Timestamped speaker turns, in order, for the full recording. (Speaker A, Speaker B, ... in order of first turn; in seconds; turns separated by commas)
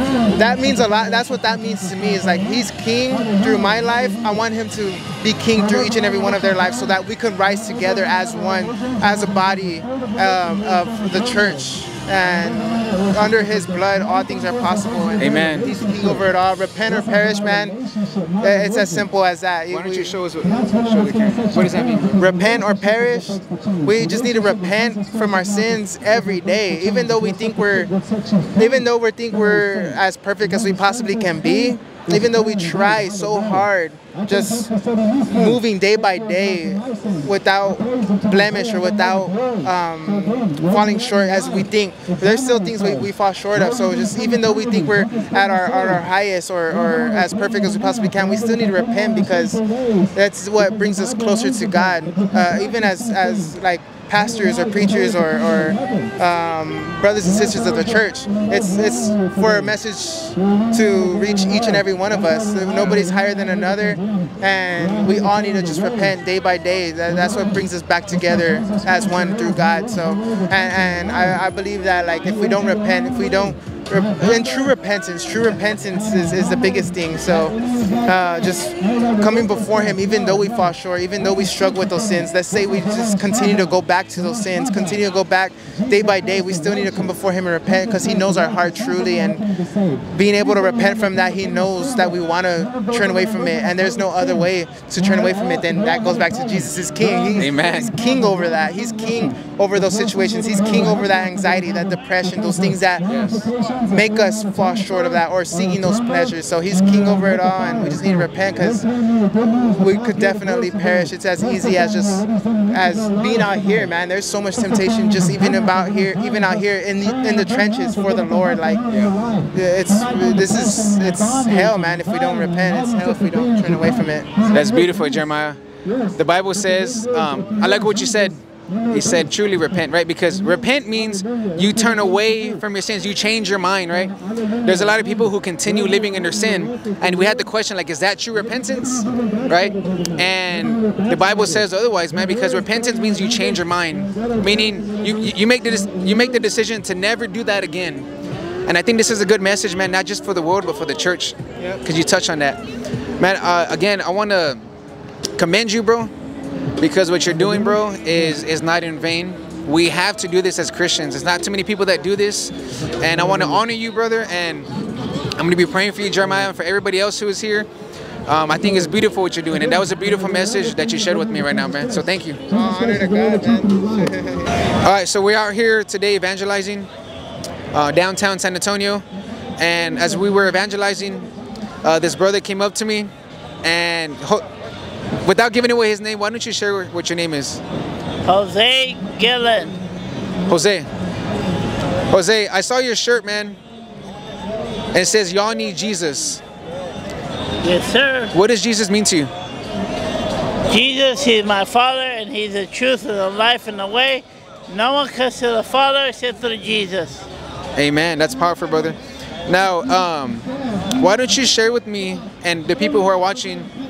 Speaker A: 0.2-17.8, Speaker B: 15.2-15.7, Speaker A: 18.4-20.1, Speaker B: 19.7-22.2, Speaker A: 22.2-27.9, Speaker A: 28.5-34.7, Speaker A: 35.2-89.5, Speaker A: 90.1-108.9, Speaker B: 97.4-97.9, Speaker B: 103.1-103.5, Speaker A: 109.4-118.8, Speaker A: 119.5-124.3, Speaker B: 124.5-125.6, Speaker B: 126.2-128.4, Speaker B: 128.9-148.1, Speaker B: 148.7-152.6, Speaker B: 153.2-154.6, Speaker B: 155.3-156.1, Speaker B: 156.8-164.7, Speaker B: 165.4-167.7, Speaker B: 168.3-172.4, Speaker A: 172.5-174.5, Speaker B: 174.8-176.9, Speaker B: 177.7-179.0, Speaker B: 179.6-181.3, Speaker B: 181.8-183.1, Speaker B: 183.6-184.4, Speaker B: 185.2-187.6, Speaker C: 188.2-189.8, Speaker B: 190.5-190.9, Speaker B: 192.1-193.6, Speaker B: 194.9-196.4, Speaker C: 197.6-198.3, Speaker B: 198.3-199.3, Speaker C: 200.7-207.2, Speaker B: 207.8-213.7